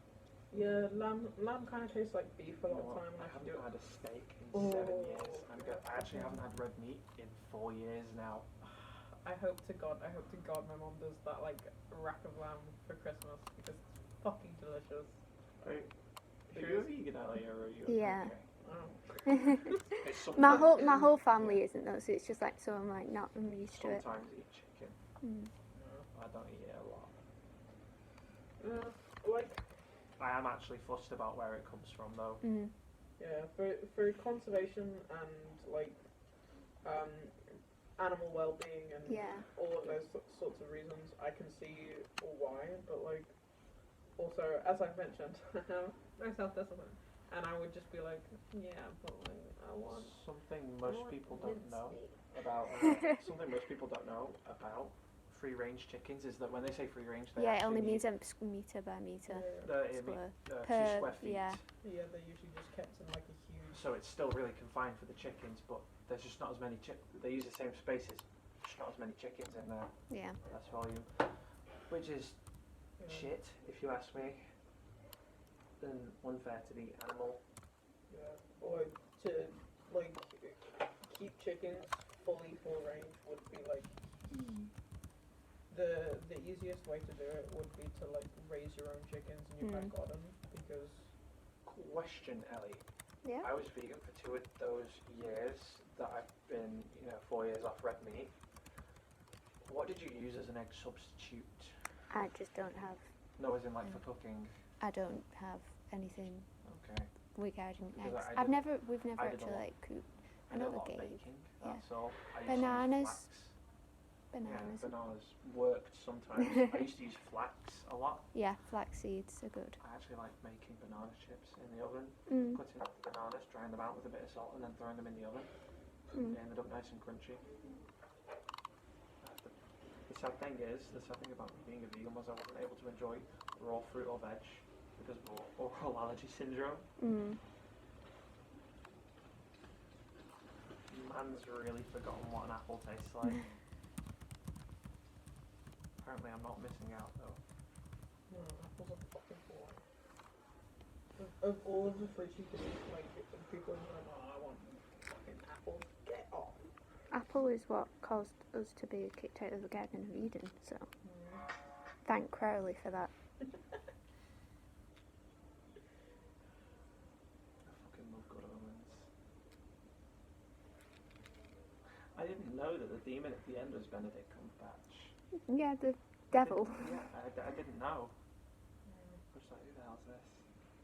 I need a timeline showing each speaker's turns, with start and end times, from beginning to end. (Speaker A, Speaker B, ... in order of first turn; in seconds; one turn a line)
Speaker A: 0.5-3.7
Speaker B: 2.6-8.5
Speaker A: 4.5-6.3
Speaker A: 8.6-15.1
Speaker B: 15.6-15.9
Speaker B: 16.5-18.5
Speaker A: 16.5-16.9
Speaker C: 17.9-18.3
Speaker A: 18.6-19.8
Speaker B: 19.9-21.6
Speaker C: 20.3-24.0
Speaker A: 20.4-21.2
Speaker B: 23.7-25.0
Speaker C: 25.2-25.5
Speaker A: 25.8-26.1
Speaker B: 26.1-27.1
Speaker A: 28.6-29.6
Speaker B: 30.2-32.4
Speaker C: 32.4-32.7
Speaker A: 33.2-36.0
Speaker A: 36.8-43.3
Speaker C: 39.1-39.5
Speaker A: 44.2-50.2
Speaker B: 49.9-58.1
Speaker A: 50.8-52.1
Speaker C: 57.4-61.6
Speaker A: 59.3-59.8
Speaker B: 59.6-61.6
Speaker A: 61.8-63.8
Speaker B: 63.7-71.3
Speaker C: 70.1-70.4
Speaker B: 71.9-72.4
Speaker A: 73.0-73.3
Speaker B: 73.0-74.5
Speaker B: 75.8-77.4
Speaker A: 78.1-84.7
Speaker A: 85.7-91.1
Speaker C: 89.6-89.9
Speaker B: 91.7-92.8
Speaker B: 93.4-98.3
Speaker B: 99.6-101.8
Speaker C: 102.1-103.0
Speaker B: 103.4-104.5
Speaker C: 104.8-106.5
Speaker B: 106.6-107.1
Speaker C: 107.3-111.8
Speaker B: 108.0-109.7
Speaker B: 110.5-113.5
Speaker C: 112.3-113.2
Speaker C: 114.3-114.9
Speaker B: 114.4-118.3
Speaker C: 118.3-119.8
Speaker B: 119.8-125.5
Speaker C: 122.3-122.6
Speaker C: 126.1-126.4
Speaker B: 126.3-127.4
Speaker B: 129.2-129.5
Speaker B: 130.1-136.9
Speaker C: 137.0-137.4
Speaker B: 140.9-143.4
Speaker B: 146.0-147.4
Speaker A: 148.3-149.8
Speaker A: 151.2-156.6
Speaker C: 157.1-160.9
Speaker A: 161.0-161.4
Speaker C: 162.0-163.1
Speaker B: 167.6-169.1
Speaker B: 172.2-175.1
Speaker C: 175.5-176.9
Speaker B: 176.3-178.1
Speaker A: 178.9-179.2
Speaker B: 179.3-180.4